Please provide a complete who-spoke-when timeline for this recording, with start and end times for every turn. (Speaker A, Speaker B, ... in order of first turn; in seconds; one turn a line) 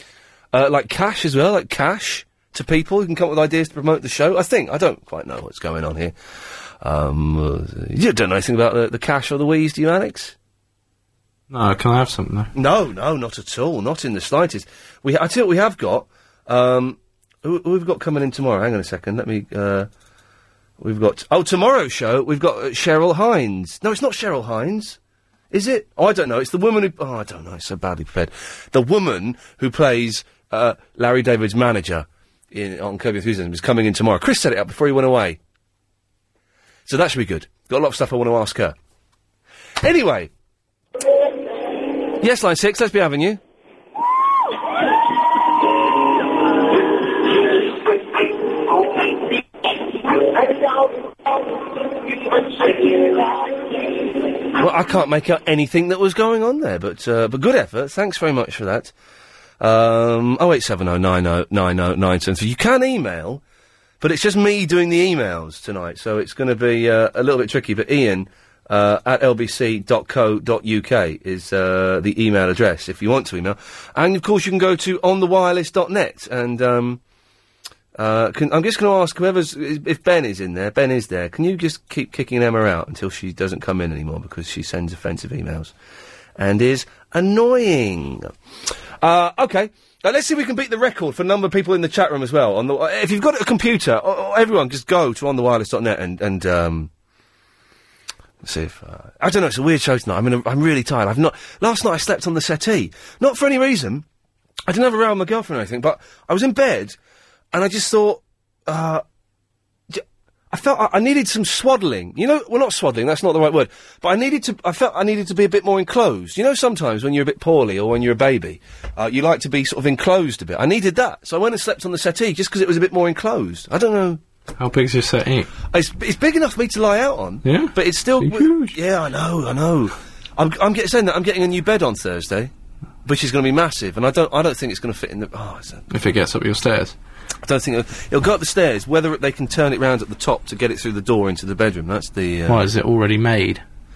Speaker A: 0.5-6.1
Speaker A: 6.8-10.3
Speaker B: 11.5-12.5
Speaker A: 12.5-19.9
Speaker A: 20.8-25.0
Speaker A: 25.5-35.4
Speaker A: 36.9-38.8
Speaker A: 39.8-40.3
Speaker A: 42.2-43.4
Speaker A: 54.5-58.9
Speaker A: 59.6-63.4
Speaker A: 64.0-77.0
Speaker A: 78.0-85.7
Speaker A: 86.4-88.3
Speaker A: 89.0-96.9
Speaker A: 98.4-104.0
Speaker A: 104.7-107.0
Speaker A: 107.5-109.0
Speaker A: 109.9-124.2
Speaker B: 124.6-125.5
Speaker A: 125.7-132.5
Speaker B: 127.4-128.8
Speaker A: 133.0-135.8
Speaker B: 135.9-136.9
Speaker A: 137.4-142.6
Speaker B: 142.5-143.6